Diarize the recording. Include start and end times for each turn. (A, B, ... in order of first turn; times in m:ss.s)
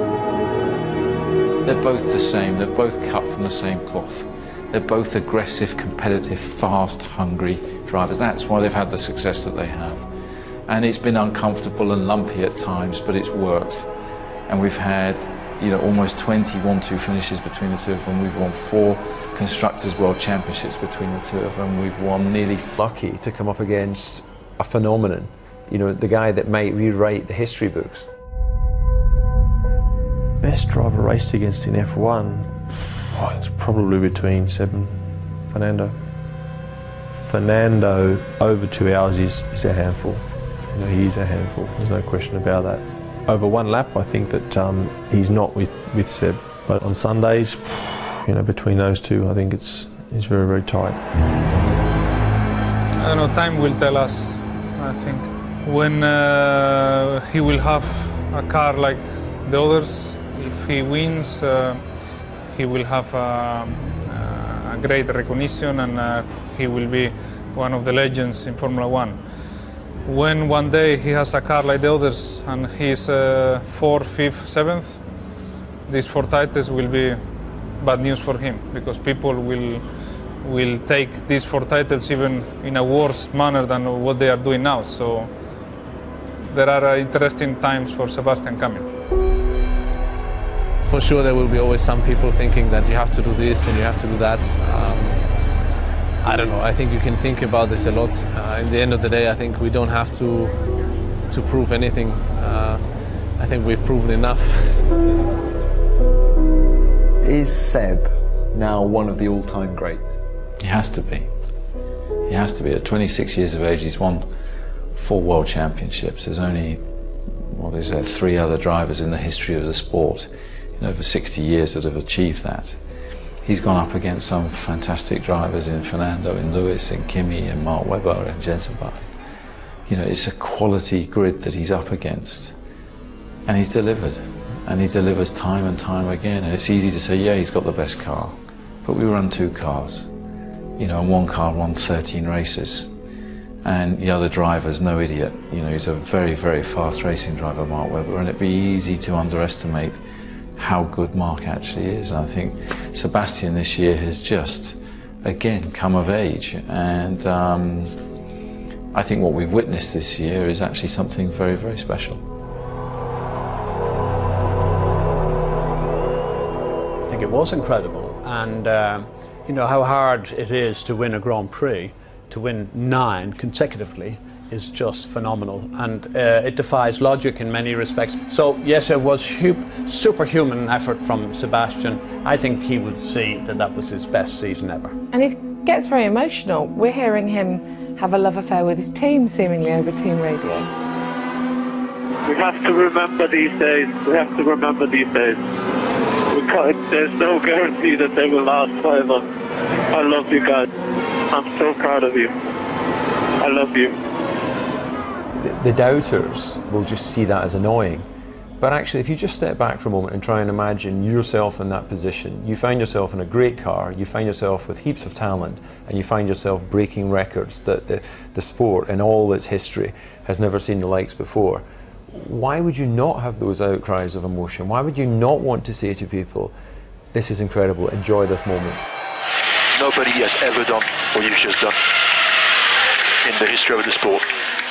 0:01.6-0:10.1 A
0:10.7-0:13.9 A
0:14.5-0:22.8 A
0:22.8-0:28.1 B
0:30.4-0:36.0 C
0:37.1-0:51.0 C
0:53.0-1:01.8 D
1:02.5-1:09.2 D
1:10.0-1:15.0 D
1:15.9-1:17.2 D
1:17.8-1:19.8 D
1:20.4-1:25.3 D
1:26.5-1:28.9 D
1:30.8-1:35.3 E
1:36.2-1:40.6 E
1:41.3-1:42.8 E
1:43.4-1:44.8 E
1:47.2-1:50.2 F
1:50.6-1:51.3 A
1:52.2-1:54.2 A
1:54.9-1:56.8 A
1:57.5-2:02.8 A
2:03.4-2:09.0 A
2:09.9-2:12.6 A
2:13.4-2:20.1 A
2:20.8-2:22.9 A
2:23.6-2:30.0 A
2:30.6-2:38.0 A
2:38.9-2:42.2 A
2:47.0-3:05.0 G
3:05.1-3:10.7 H
3:12.2-3:15.4 I
3:16.3-3:19.3 I
3:19.9-3:20.7 I
3:21.3-3:22.3 I
3:23.4-3:24.0 I
3:25.4-3:28.0 B
3:28.6-3:46.5 B
3:47.1-3:48.8 B
3:49.7-3:52.2 J
3:53.2-3:54.3 J